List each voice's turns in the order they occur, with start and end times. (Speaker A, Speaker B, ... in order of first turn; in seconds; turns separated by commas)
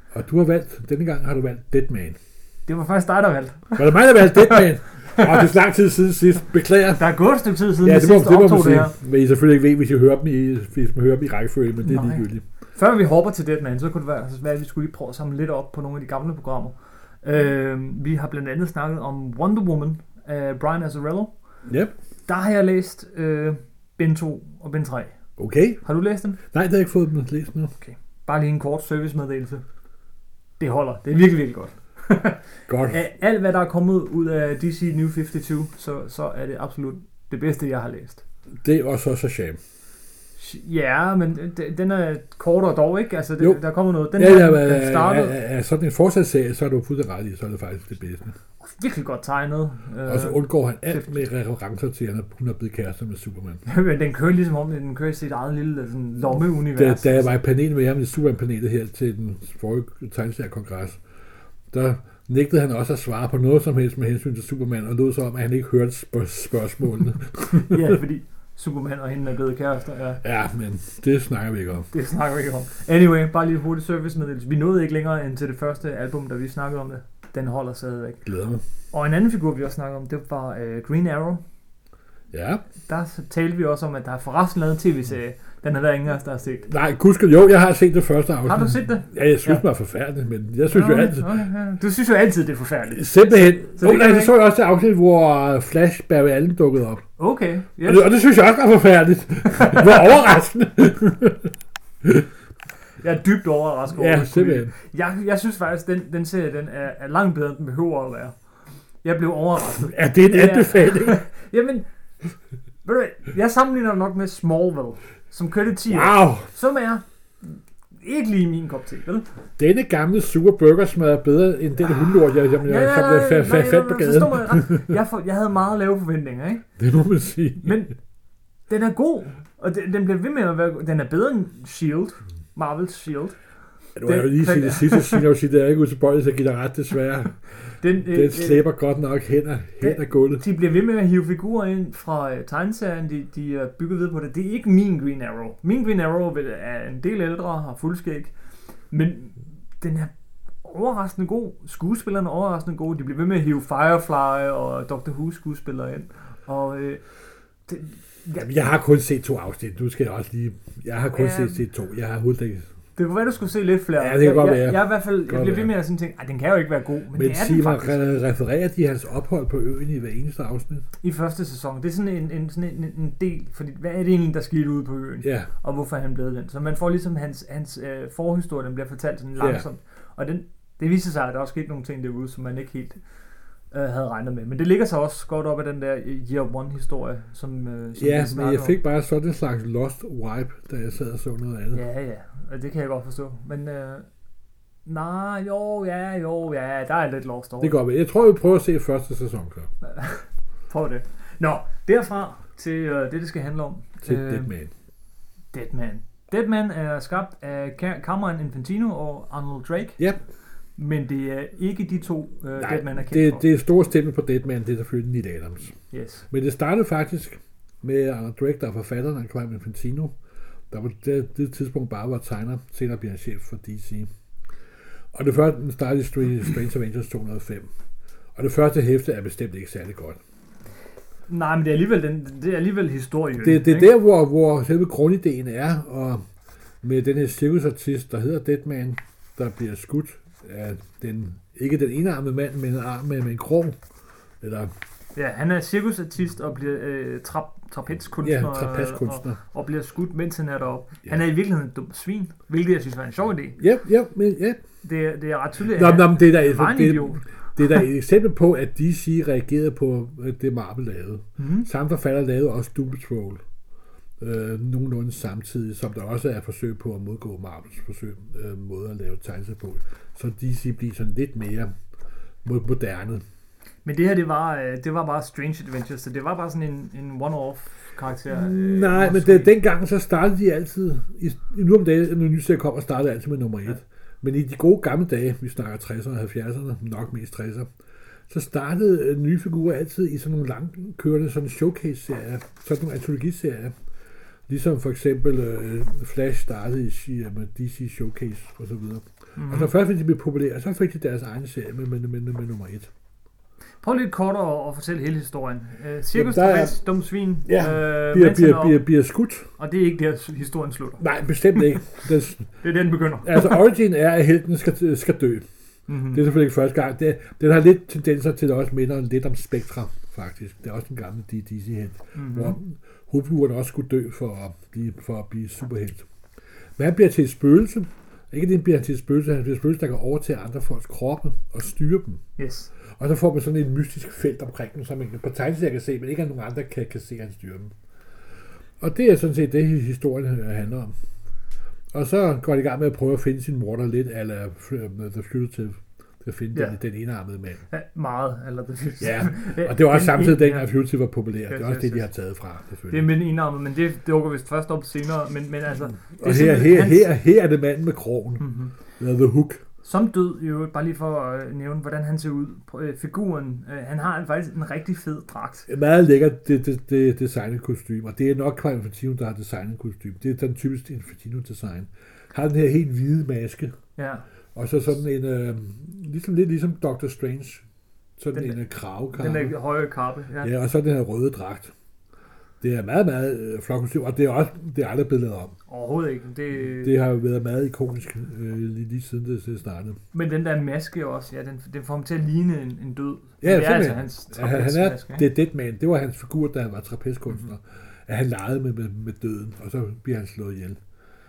Speaker A: 0.1-2.2, Speaker B: 2.7-4.7, Speaker A: 3.8-7.1, Speaker B: 7.0-8.9, Speaker A: 7.8-12.4, Speaker B: 11.8-21.3, Speaker A: 21.7-21.9, Speaker B: 22.3-25.1, Speaker A: 25.4-25.8, Speaker B: 25.8-26.4, Speaker A: 26.5-27.7, Speaker B: 27.8-29.6, Speaker B: 30.6-38.2, Speaker A: 32.7-33.0, Speaker A: 38.6-39.6, Speaker B: 40.4-45.4, Speaker A: 44.1-48.4, Speaker B: 48.6-51.1, Speaker A: 50.1-53.6, Speaker B: 53.7-57.3, Speaker A: 56.8-61.0, Speaker A: 61.7-68.0, Speaker B: 67.5-70.2, Speaker A: 70.2-71.9, Speaker B: 71.9-78.3, Speaker A: 78.3-78.6, Speaker B: 78.9-81.4, Speaker A: 82.3-82.7, Speaker B: 82.8-86.7, Speaker A: 86.7-91.3, Speaker B: 88.4-89.6, Speaker B: 90.7-94.3, Speaker A: 92.9-97.0, Speaker B: 97.2-98.1, Speaker A: 97.8-101.5, Speaker B: 99.5-99.9, Speaker B: 103.0-108.3, Speaker A: 103.9-104.7, Speaker B: 109.0-111.8, Speaker A: 109.8-111.2, Speaker B: 112.8-119.3, Speaker A: 115.9-116.5, Speaker A: 119.6-125.0, Speaker B: 122.6-126.7, Speaker A: 126.8-127.8, Speaker B: 127.6-128.0, Speaker B: 128.7-133.4, Speaker A: 134.0-137.4, Speaker B: 134.1-135.3, Speaker B: 137.8-138.7, Speaker A: 138.1-140.4, Speaker B: 139.8-148.3, Speaker B: 148.9-150.1, Speaker B: 150.6-157.0, Speaker B: 157.7-158.5, Speaker A: 158.4-162.7, Speaker B: 161.2-161.6, Speaker B: 163.0-168.2, Speaker A: 164.0-165.7, Speaker A: 167.1-170.8, Speaker B: 171.0-183.0, Speaker A: 175.2-175.5, Speaker A: 179.4-179.7, Speaker B: 183.7-188.8, Speaker A: 188.0-191.8, Speaker B: 191.7-194.1, Speaker B: 194.9-197.8, Speaker A: 197.6-199.7, Speaker B: 199.9-204.5, Speaker A: 204.1-204.7, Speaker B: 205.5-210.0, Speaker B: 210.8-213.4, Speaker A: 212.6-215.7, Speaker B: 215.9-216.3, Speaker A: 216.3-220.1, Speaker A: 220.7-224.1, Speaker A: 225.1-227.7, Speaker A: 228.4-230.2, Speaker B: 231.3-233.9, Speaker A: 233.4-236.2, Speaker A: 236.8-243.8, Speaker A: 244.4-244.7, Speaker B: 245.2-253.6, Speaker A: 248.2-249.4, Speaker A: 253.6-254.6, Speaker B: 254.8-257.2, Speaker A: 255.7-263.4, Speaker B: 261.4-261.7, Speaker A: 264.2-271.7, Speaker A: 272.4-273.2, Speaker B: 273.9-279.5, Speaker A: 278.3-287.7, Speaker A: 288.3-293.7, Speaker A: 294.5-302.9, Speaker B: 299.4-299.7, Speaker B: 303.8-308.8, Speaker A: 306.1-306.8, Speaker A: 307.5-309.5, Speaker B: 309.6-311.0, Speaker A: 311.0-312.5, Speaker B: 312.6-313.6, Speaker A: 313.2-315.5, Speaker B: 315.9-316.2, Speaker A: 316.1-326.1, Speaker B: 322.1-322.6, Speaker A: 326.8-332.2, Speaker B: 332.4-332.7, Speaker A: 333.0-337.7, Speaker A: 338.8-340.9, Speaker A: 341.9-347.6, Speaker B: 347.7-350.7, Speaker A: 349.0-353.1, Speaker B: 351.5-352.1, Speaker B: 352.9-357.1, Speaker A: 356.2-358.4, Speaker B: 358.4-358.7, Speaker A: 359.0-359.6, Speaker B: 359.8-365.7, Speaker A: 365.7-373.8, Speaker B: 374.0-374.2, Speaker A: 374.6-377.6, Speaker A: 378.2-379.6, Speaker B: 379.1-380.5, Speaker A: 380.4-381.7, Speaker A: 382.6-385.6, Speaker B: 385.7-387.0, Speaker A: 386.7-390.0, Speaker B: 390.1-395.3, Speaker A: 393.4-400.8